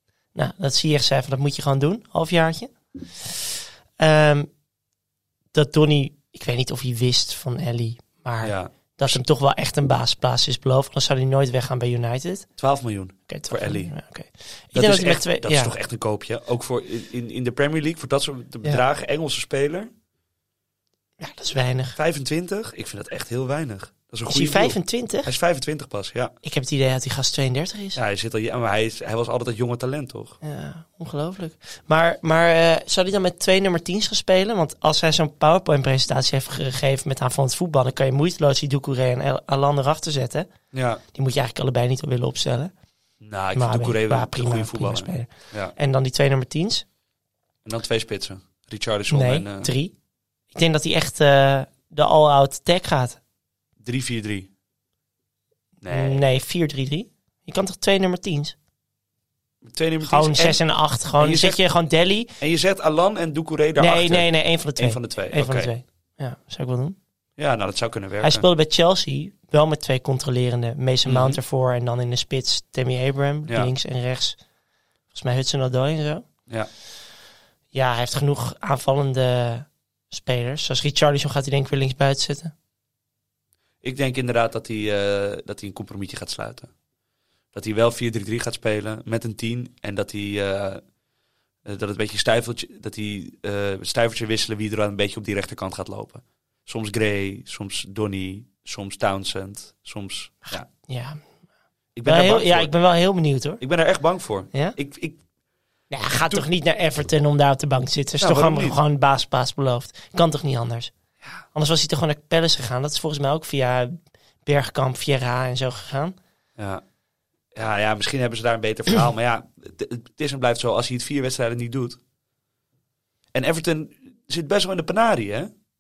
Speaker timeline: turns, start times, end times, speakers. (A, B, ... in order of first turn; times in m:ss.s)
0:00.4-0:04.5 A
0:05.5-0:12.5 A
0:08.4-0:09.2 B
0:12.6-0:13.9 B
0:13.3-0:15.7 A
0:14.7-0:19.9 B
0:21.2-0:22.0 A
0:22.0-0:26.3 B
0:24.3-0:25.3 A
0:26.4-0:28.0 A
0:28.0-0:30.4 B
0:30.4-0:40.5 A
0:40.7-0:41.0 B
0:41.1-0:42.7 A
0:43.2-0:45.7 B
0:43.5-0:46.8 A
0:47.6-0:49.7 B
0:49.1-0:49.9 A
0:50.5-0:53.2 A
0:53.8-0:54.5 B
0:55.8-0:56.2 B
0:55.9-0:58.6 A
0:59.6-1:00.6 B
1:00.0-1:02.3 A
1:01.2-1:01.6 B
1:02.4-1:05.7 B
1:03.8-1:07.0 A
1:07.4-1:08.5 B
1:08.2-1:14.4 A
1:11.1-1:11.4 B
1:13.5-1:13.7 B
1:15.1-1:16.2 A
1:17.7-1:22.5 A
1:23.8-1:26.7 B
1:27.5-1:30.8 B
1:31.6-1:40.7 B
1:40.5-1:41.2 A
1:42.0-1:42.7 B
1:42.0-1:43.6 A
1:43.6-1:45.2 B
1:45.9-1:50.9 A
1:48.2-1:48.8 B
1:51.5-1:56.2 A
1:56.6-1:56.8 B
1:57.5-2:02.0 B
2:03.3-2:05.5 B